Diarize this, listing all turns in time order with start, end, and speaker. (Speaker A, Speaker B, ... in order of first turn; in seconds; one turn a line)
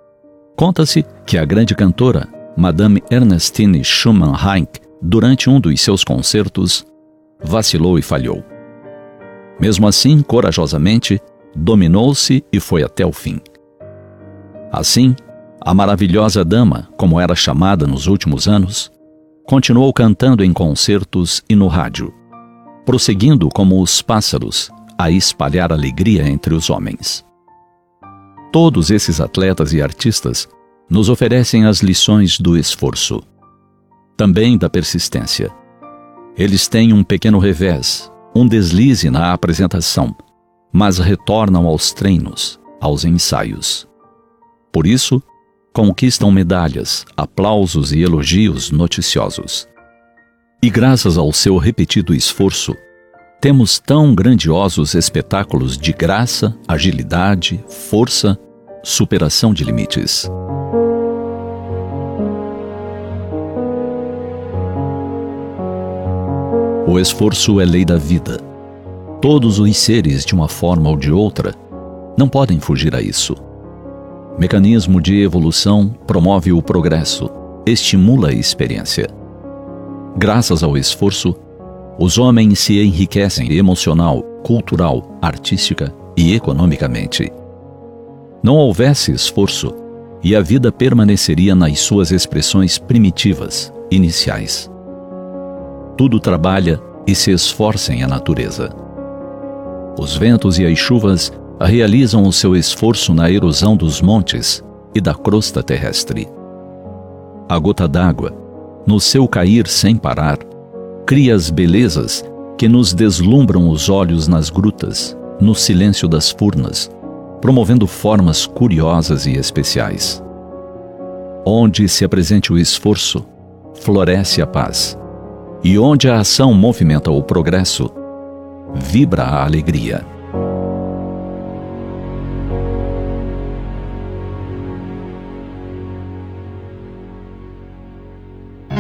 Speaker A: 0.6-6.9
Speaker A: 7.4-8.4
Speaker A: 9.6-13.4
Speaker A: 14.7-18.9
Speaker A: 19.4-22.2
Speaker A: 22.8-27.2
Speaker A: 28.5-33.2
Speaker A: 34.2-35.5
Speaker A: 36.4-40.2
Speaker A: 40.7-43.9
Speaker A: 44.7-49.7
Speaker A: 50.6-52.8
Speaker A: 53.4-60.3
Speaker A: 66.8-68.4
Speaker A: 69.2-71.5
Speaker A: 72.2-73.4
Speaker A: 74.3-79.1
Speaker A: 80.1-81.4
Speaker A: 82.0-87.3
Speaker A: 88.4-94.7
Speaker A: 96.0-98.7
Speaker A: 100.0-106.3
Speaker A: 107.5-110.5
Speaker A: 111.1-120.2
Speaker A: 121.4-125.0
Speaker A: 125.6-127.9
Speaker A: 128.7-130.1